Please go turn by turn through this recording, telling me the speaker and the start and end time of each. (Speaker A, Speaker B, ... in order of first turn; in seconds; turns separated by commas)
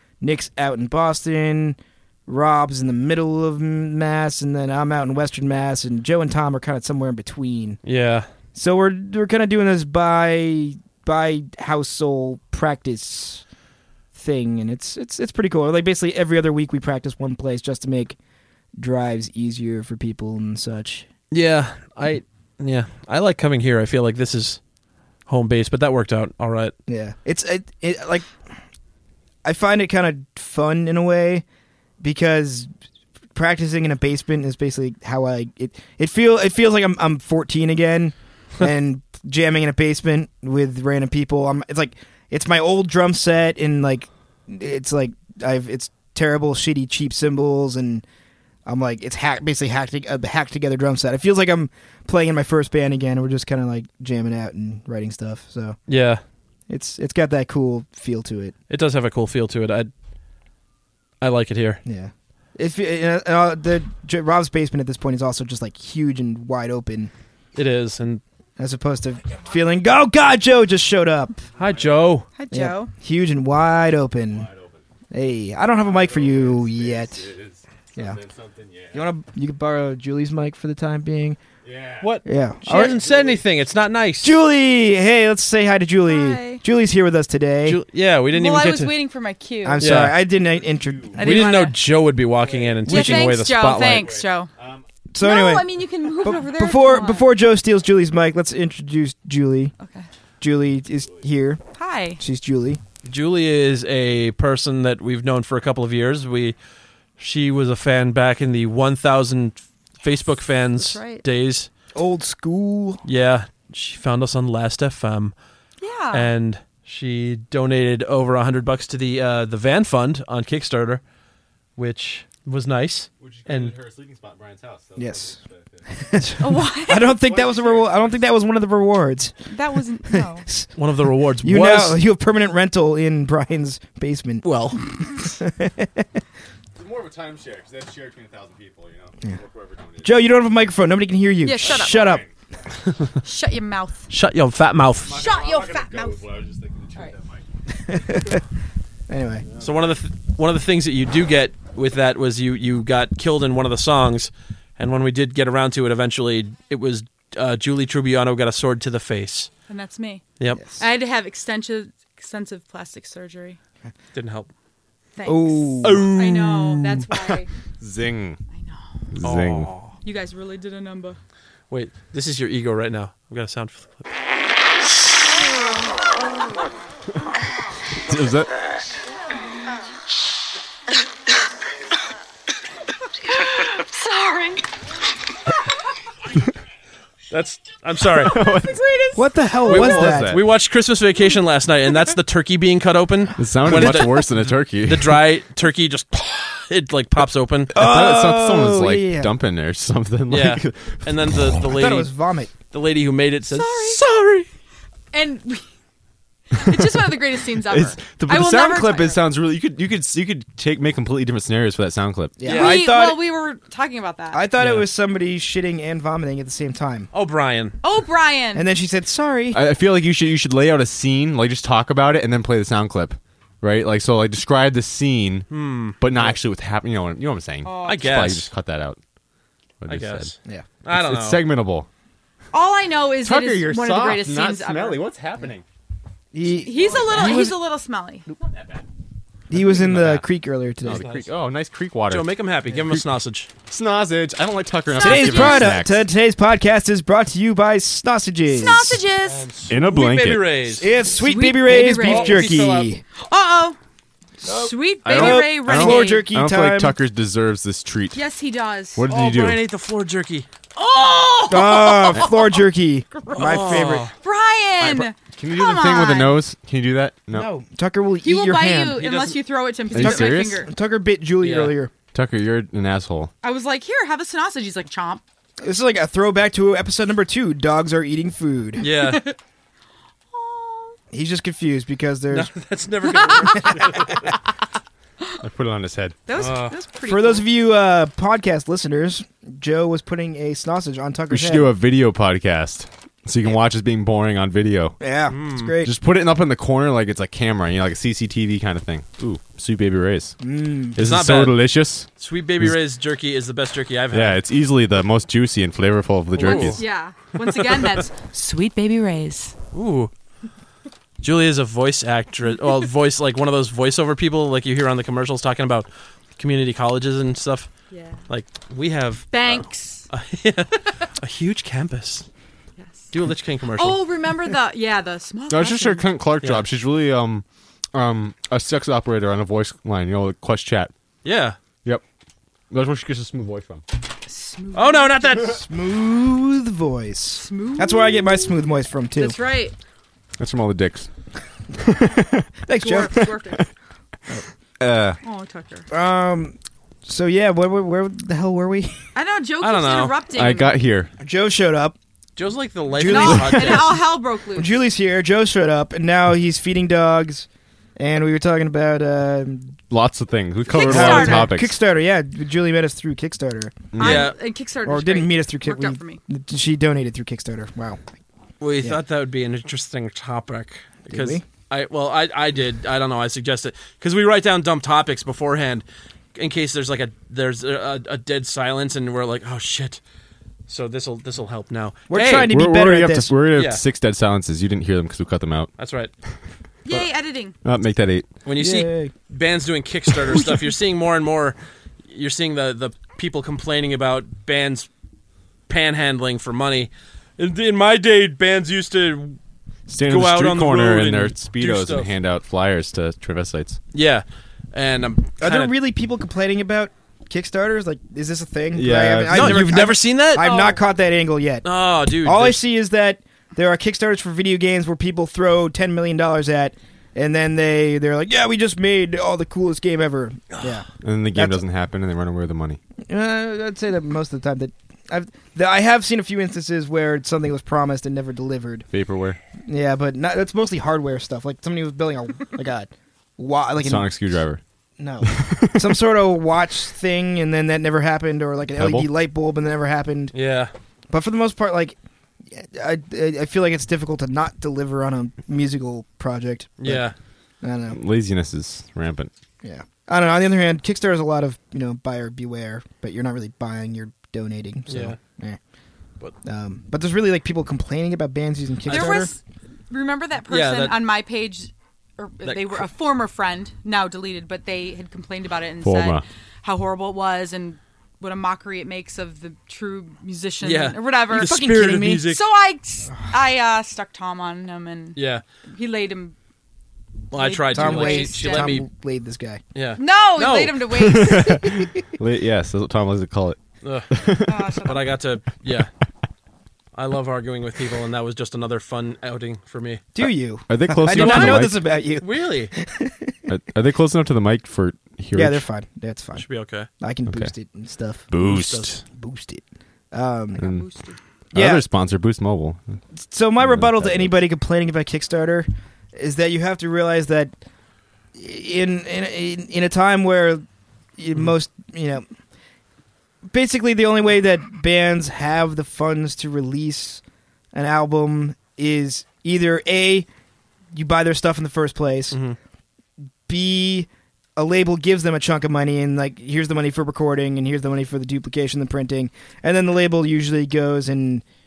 Speaker A: 0.2-7.8, Speaker B: 7.8-8.3, Speaker A: 8.6-13.4, Speaker A: 14.1-18.2, Speaker A: 18.8-21.1, Speaker B: 21.3-24.6, Speaker B: 25.3-26.8, Speaker A: 26.9-28.4, Speaker A: 29.4-31.5, Speaker A: 32.0-32.7, Speaker A: 33.4-48.0, Speaker A: 48.6-55.8, Speaker B: 55.9-56.2, Speaker A: 56.7-58.5, Speaker B: 58.7-59.9, Speaker B: 61.2-61.8, Speaker A: 61.9-67.1, Speaker B: 67.5-68.2, Speaker A: 68.6-71.4, Speaker C: 71.6-72.0, Speaker B: 71.6-72.3, Speaker D: 72.4-72.9, Speaker A: 72.5-74.5, Speaker C: 74.3-74.8, Speaker A: 75.1-77.3, Speaker C: 75.8-79.1, Speaker A: 78.9-81.4, Speaker C: 81.6-83.5, Speaker B: 82.0-84.4, Speaker A: 82.2-83.0, Speaker A: 84.2-87.8, Speaker D: 86.1-86.6, Speaker B: 87.7-88.9, Speaker D: 88.3-89.9, Speaker A: 89.6-91.3, Speaker B: 89.8-90.2, Speaker C: 90.6-91.2, Speaker D: 91.2-91.8, Speaker B: 91.2-94.1, Speaker C: 92.4-94.8, Speaker D: 92.9-94.5, Speaker A: 92.9-93.2, Speaker A: 95.1-99.7, Speaker D: 95.2-97.3, Speaker D: 99.8-100.1, Speaker A: 100.4-101.6, Speaker D: 101.8-102.2, Speaker A: 102.2-102.8, Speaker B: 103.0-106.6, Speaker B: 107.2-111.7, Speaker D: 110.8-111.2, Speaker A: 112.0-113.0, Speaker B: 113.0-115.3, Speaker D: 115.8-116.3, Speaker B: 116.1-121.0, Speaker B: 121.8-123.7, Speaker C: 123.2-126.3, Speaker A: 125.0-125.4, Speaker A: 125.9-129.5, Speaker D: 126.4-127.1, Speaker C: 126.9-128.3, Speaker D: 129.5-130.5, Speaker A: 130.1-130.7, Speaker B: 130.8-132.0, Speaker A: 131.4-136.1, Speaker B: 134.4-134.8, Speaker C: 136.8-140.2, Speaker A: 140.0-142.2, Speaker D: 141.4-142.2, Speaker C: 141.6-142.3, Speaker D: 143.2-144.1, Speaker B: 144.1-145.2, Speaker C: 145.0-147.5, Speaker D: 145.1-146.2, Speaker A: 147.8-148.4, Speaker A: 149.1-149.5, Speaker C: 149.5-149.8, Speaker B: 149.6-159.5, Speaker D: 159.7-163.6, Speaker A: 160.5-160.9, Speaker B: 164.1-164.5, Speaker D: 165.2-167.5, Speaker A: 165.2-166.1, Speaker B: 165.8-167.1, Speaker C: 167.8-168.4, Speaker D: 168.5-168.9, Speaker C: 169.1-169.7, Speaker B: 169.2-169.9, Speaker D: 170.0-171.2, Speaker B: 171.7-174.1, Speaker C: 177.9-178.5, Speaker D: 183.3-184.6, Speaker B: 187.3-188.4, Speaker C: 188.2-188.8, Speaker D: 188.5-189.2, Speaker A: 189.2-190.4, Speaker B: 189.6-197.9, Speaker C: 189.7-190.4, Speaker C: 193.4-195.2, Speaker A: 193.7-194.1, Speaker A: 197.7-199.3, Speaker C: 197.8-201.5, Speaker B: 200.3-202.1, Speaker A: 201.7-202.5, Speaker B: 202.7-204.5, Speaker D: 203.5-204.0, Speaker D: 205.1-205.7, Speaker D: 206.5-209.2, Speaker C: 207.7-212.4, Speaker A: 212.4-213.3, Speaker B: 212.4-212.8, Speaker D: 212.5-214.4, Speaker A: 214.3-217.1, Speaker B: 214.6-214.9, Speaker B: 217.1-217.8, Speaker D: 217.8-218.7, Speaker A: 218.5-219.6, Speaker C: 219.5-225.5, Speaker B: 225.5-226.3, Speaker C: 226.0-229.0, Speaker D: 227.6-228.2, Speaker B: 227.8-228.5, Speaker C: 229.8-230.3, Speaker B: 229.9-231.4, Speaker C: 230.9-231.9, Speaker D: 232.5-235.0, Speaker C: 233.2-235.6, Speaker A: 236.3-237.6, Speaker D: 236.6-238.3, Speaker C: 237.0-237.4, Speaker C: 238.3-238.8, Speaker A: 239.5-241.1, Speaker C: 239.6-240.2, Speaker B: 239.9-240.2, Speaker C: 240.8-243.1, Speaker B: 240.9-241.3, Speaker B: 242.1-243.5, Speaker C: 243.7-246.1, Speaker D: 244.9-245.7, Speaker A: 245.0-249.0, Speaker D: 248.5-249.5, Speaker B: 249.2-250.9, Speaker C: 249.7-250.5, Speaker A: 250.8-253.0, Speaker D: 251.2-252.6, Speaker B: 251.7-252.9, Speaker D: 253.2-253.8, Speaker A: 254.4-257.0, Speaker D: 254.5-256.3, Speaker C: 255.1-258.2, Speaker D: 258.1-259.1, Speaker C: 259.0-259.6, Speaker B: 259.1-260.5, Speaker D: 260.8-262.6, Speaker A: 261.5-264.1, Speaker D: 263.2-266.4, Speaker B: 263.4-264.1, Speaker C: 264.8-267.5, Speaker B: 267.3-267.6, Speaker A: 267.6-269.0, Speaker D: 268.2-270.7, Speaker B: 269.0-269.4, Speaker C: 269.9-270.6, Speaker A: 269.9-271.9, Speaker B: 271.4-271.8, Speaker C: 272.1-273.3, Speaker D: 273.4-275.2, Speaker A: 275.6-278.8, Speaker B: 278.8-279.2, Speaker D: 278.8-279.4, Speaker D: 280.3-281.0, Speaker A: 281.1-282.5, Speaker B: 282.3-284.2, Speaker D: 283.2-283.9, Speaker A: 283.2-284.2, Speaker C: 285.4-286.2, Speaker D: 286.3-287.5, Speaker B: 286.4-286.8, Speaker A: 287.1-291.7, Speaker C: 291.3-295.0, Speaker A: 295.0-295.9, Speaker B: 295.3-295.7, Speaker C: 295.8-300.4, Speaker A: 300.4-301.0, Speaker C: 300.9-302.1, Speaker B: 301.0-301.6, Speaker B: 302.2-304.4, Speaker C: 304.1-306.8, Speaker B: 306.4-306.8, Speaker D: 306.4-309.6, Speaker B: 309.7-310.1, Speaker B: 311.2-317.7, Speaker D: 317.9-318.2, Speaker B: 318.3-322.3, Speaker D: 319.3-320.1, Speaker D: 322.8-323.1, Speaker B: 323.1-324.0, Speaker D: 323.8-326.1, Speaker C: 325.5-330.9, Speaker B: 331.2-331.6, Speaker C: 332.7-333.8, Speaker D: 334.3-335.6, Speaker B: 334.8-335.6, Speaker A: 335.5-339.4, Speaker D: 337.4-338.6, Speaker D: 339.2-339.8, Speaker C: 340.4-341.1, Speaker C: 341.8-342.5, Speaker A: 342.7-343.3, Speaker D: 342.8-343.7, Speaker C: 343.2-343.6, Speaker C: 344.8-345.2, Speaker D: 345.2-345.9, Speaker A: 345.9-349.0, Speaker D: 349.1-350.8, Speaker B: 349.6-350.2, Speaker C: 350.3-351.1, Speaker A: 351.2-352.0, Speaker B: 352.4-354.0, Speaker A: 352.9-353.9, Speaker D: 353.0-354.8, Speaker C: 353.4-353.8, Speaker A: 354.5-359.8, Speaker C: 359.9-361.8, Speaker D: 360.7-361.5, Speaker A: 360.8-364.0, Speaker C: 363.9-364.3, Speaker D: 364.0-366.2, Speaker B: 364.0-364.4, Speaker A: 364.9-368.0, Speaker B: 368.6-380.0, Speaker A: 371.1-371.4, Speaker B: 380.7-382.5, Speaker A: 382.1-383.3, Speaker C: 382.5-385.7, Speaker B: 383.5-383.8, Speaker B: 385.8-386.1, Speaker D: 386.9-387.6, Speaker C: 387.6-388.3, Speaker B: 388.4-394.9, Speaker A: 388.6-389.1, Speaker B: 395.7-399.4, Speaker C: 399.9-403.8, Speaker B: 400.1-402.1, Speaker B: 403.9-405.7, Speaker A: 405.4-411.7, Speaker C: 408.7-409.8, Speaker B: 409.3-410.5, Speaker D: 410.4-410.8, Speaker B: 411.6-412.6, Speaker A: 412.2-421.6, Speaker C: 421.0-422.8, Speaker A: 423.1-428.9, Speaker C: 428.9-429.4, Speaker A: 429.6-434.2, Speaker C: 433.8-434.6, Speaker A: 435.0-440.3, Speaker C: 435.2-436.0, Speaker C: 438.8-439.1, Speaker B: 440.3-440.7, Speaker A: 441.1-442.0, Speaker A: 442.5-447.1, Speaker B: 446.8-447.1, Speaker A: 447.6-448.0, Speaker C: 447.9-449.3, Speaker A: 449.6-455.6, Speaker B: 454.9-455.2, Speaker A: 456.4-459.3, Speaker B: 458.9-459.3, Speaker D: 458.9-471.6, Speaker B: 460.5-460.9, Speaker B: 462.4-462.8, Speaker C: 465.8-466.2, Speaker B: 470.6-472.4, Speaker A: 471.3-472.3, Speaker D: 472.2-476.4, Speaker B: 475.2-475.4, Speaker B: 477.3-478.9, Speaker D: 477.3-478.8, Speaker A: 477.7-479.6, Speaker B: 479.8-480.8, Speaker D: 480.0-481.7, Speaker C: 480.9-484.7, Speaker A: 481.6-482.0, Speaker B: 483.8-484.1, Speaker D: 484.4-485.1, Speaker B: 484.7-485.9, Speaker B: 486.9-490.0, Speaker A: 490.1-493.5, Speaker C: 490.2-491.8, Speaker B: 491.1-492.7, Speaker C: 493.5-495.6, Speaker A: 495.3-496.4, Speaker B: 496.4-496.9, Speaker A: 497.0-498.3, Speaker C: 497.3-497.5, Speaker C: 498.3-499.0, Speaker B: 498.4-499.0, Speaker A: 499.1-500.6, Speaker D: 500.6-501.2, Speaker C: 500.6-500.9, Speaker A: 501.5-501.8, Speaker C: 501.5-502.8, Speaker A: 503.1-507.5, Speaker C: 503.6-504.4, Speaker A: 508.4-510.6, Speaker A: 511.2-512.2, Speaker A: 513.5-517.2, Speaker A: 517.7-520.3, Speaker A: 520.9-522.4, Speaker B: 522.3-522.6, Speaker A: 523.5-531.4